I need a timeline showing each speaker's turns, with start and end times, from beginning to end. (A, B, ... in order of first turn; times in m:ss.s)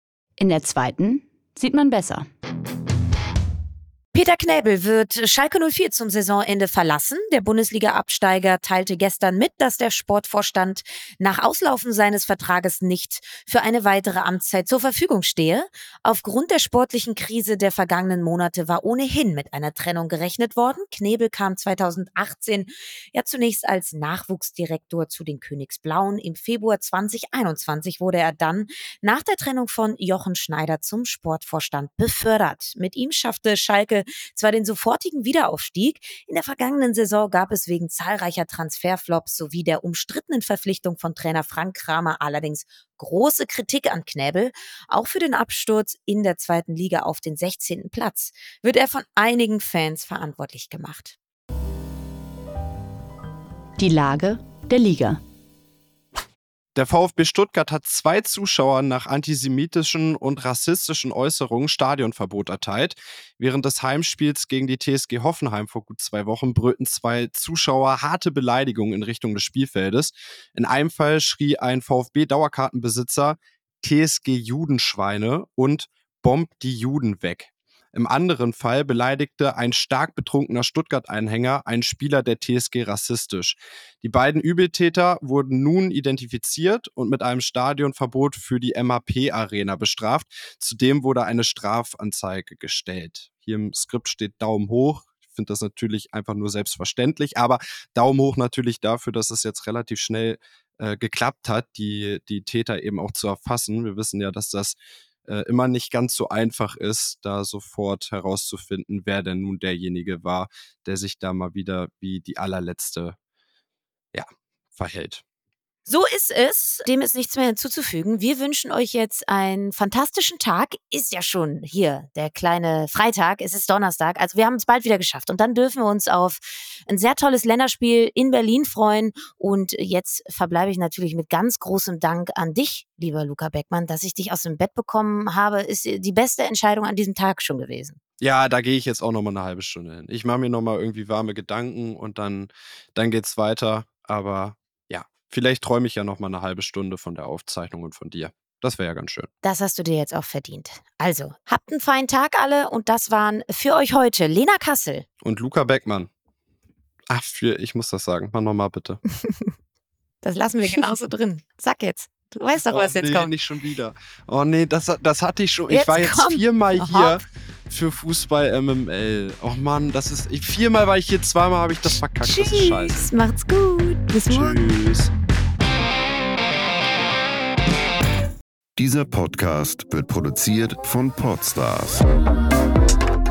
0:00.4-0:02.3 A
0:04.1-0:51.2 B
0:53.8-0:55.2 A
0:56.7-1:53.2 C
1:54.1-1:55.2 C
1:55.8-2:18.0 B
2:18.2-2:29.3 C
2:29.4-2:35.0 B
2:35.2-2:36.1 C
2:37.1-2:39.0 C
2:39.2-2:39.5 B
2:40.2-2:43.3 B
2:42.7-2:53.0 C
2:45.7-2:47.2 B
2:52.2-2:54.6 B
2:54.3-2:55.1 C
2:58.8-3:02.0 D